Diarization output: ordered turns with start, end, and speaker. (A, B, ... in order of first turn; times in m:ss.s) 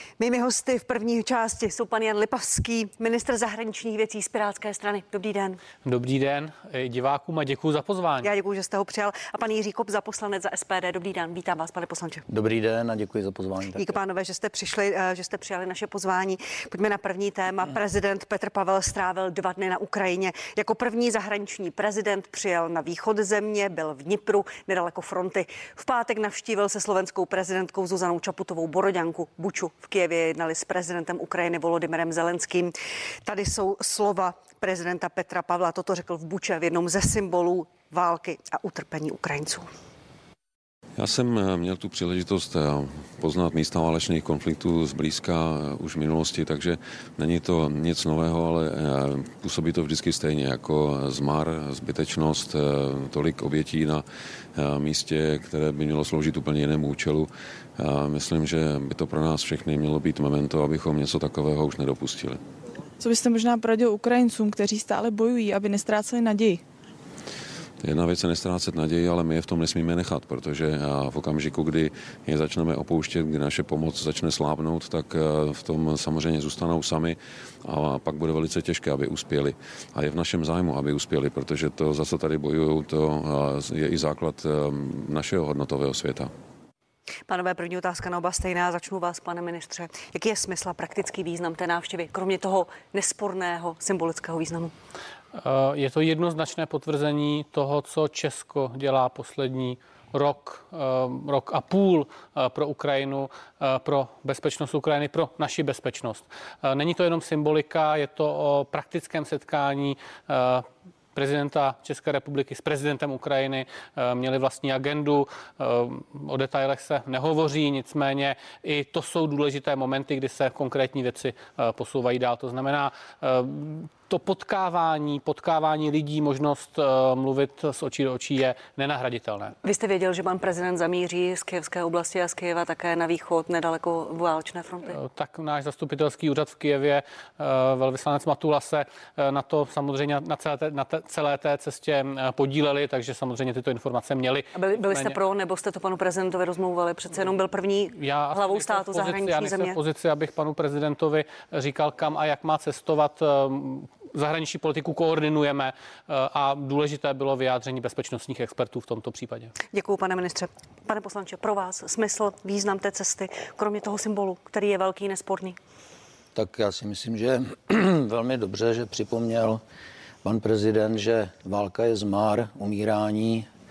0:00.2-0:05.6 A
0:05.8-0:08.3 B
0:08.2-0:12.2 A
0:12.3-0:14.0 C
0:13.8-0:32.7 A
0:33.3-0:39.7 A
0:41.0-0:54.0 D
0:54.6-1:02.4 D
1:03.0-1:06.6 E
1:07.8-1:26.3 D
1:27.3-1:34.7 A
1:35.4-2:09.6 B
2:09.6-2:15.0 A
2:14.9-2:25.2 B
2:24.5-2:29.8 A
2:28.0-2:39.5 B
2:39.7-2:45.6 A
2:46.4-2:49.6 C
2:50.2-2:53.5 C